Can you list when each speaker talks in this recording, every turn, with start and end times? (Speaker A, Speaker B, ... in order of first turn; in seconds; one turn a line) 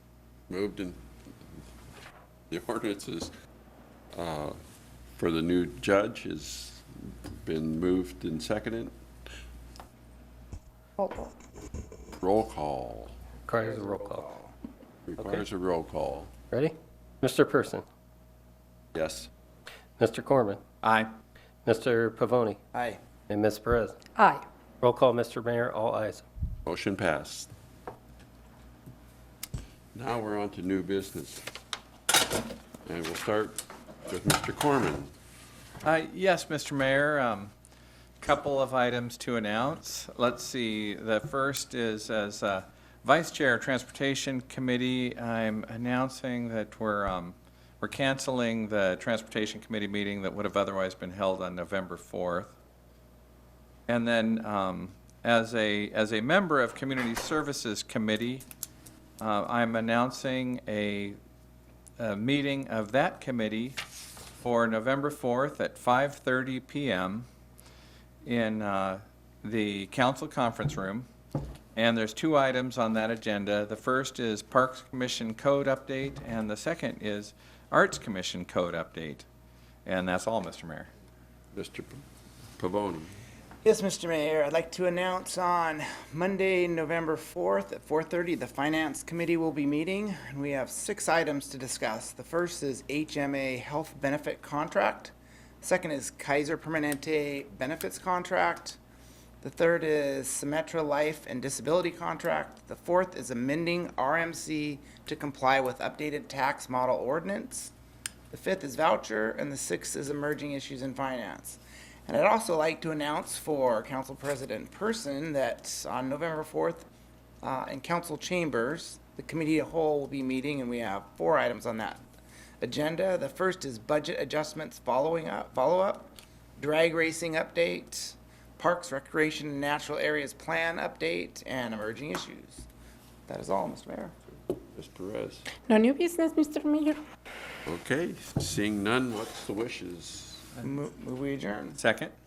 Speaker A: 0.5-1.0
Speaker A: 2.5-3.3
Speaker A: 4.1-4.6
Speaker A: 5.2-8.9
Speaker B: 11.0-11.3
Speaker A: 12.1-13.2
Speaker C: 13.4-14.3
Speaker D: 14.1-14.5
Speaker A: 15.1-16.3
Speaker C: 16.5-17.8
Speaker A: 18.9-19.3
Speaker C: 20.0-20.6
Speaker E: 20.8-21.1
Speaker C: 21.6-22.6
Speaker D: 22.7-23.0
Speaker C: 23.3-24.0
Speaker B: 24.1-24.4
Speaker C: 24.8-26.2
Speaker A: 26.6-27.5
Speaker A: 29.9-31.4
Speaker A: 32.8-35.1
Speaker E: 35.8-37.5
Speaker E: 38.2-52.5
Speaker E: 53.9-58.4
Speaker E: 59.2-61.2
Speaker E: 62.0-63.8
Speaker E: 64.4-67.2
Speaker E: 68.2-71.1
Speaker E: 71.8-79.2
Speaker E: 79.8-80.9
Speaker A: 81.5-82.0
Speaker A: 82.6-83.2
Speaker D: 83.6-98.8
Speaker D: 99.4-107.7
Speaker D: 108.3-116.8
Speaker D: 117.4-122.0
Speaker D: 122.6-132.7
Speaker D: 133.3-134.1
Speaker A: 134.7-135.5
Speaker B: 135.7-137.0
Speaker A: 137.7-140.4
Speaker D: 140.6-141.8
Speaker E: 141.7-142.1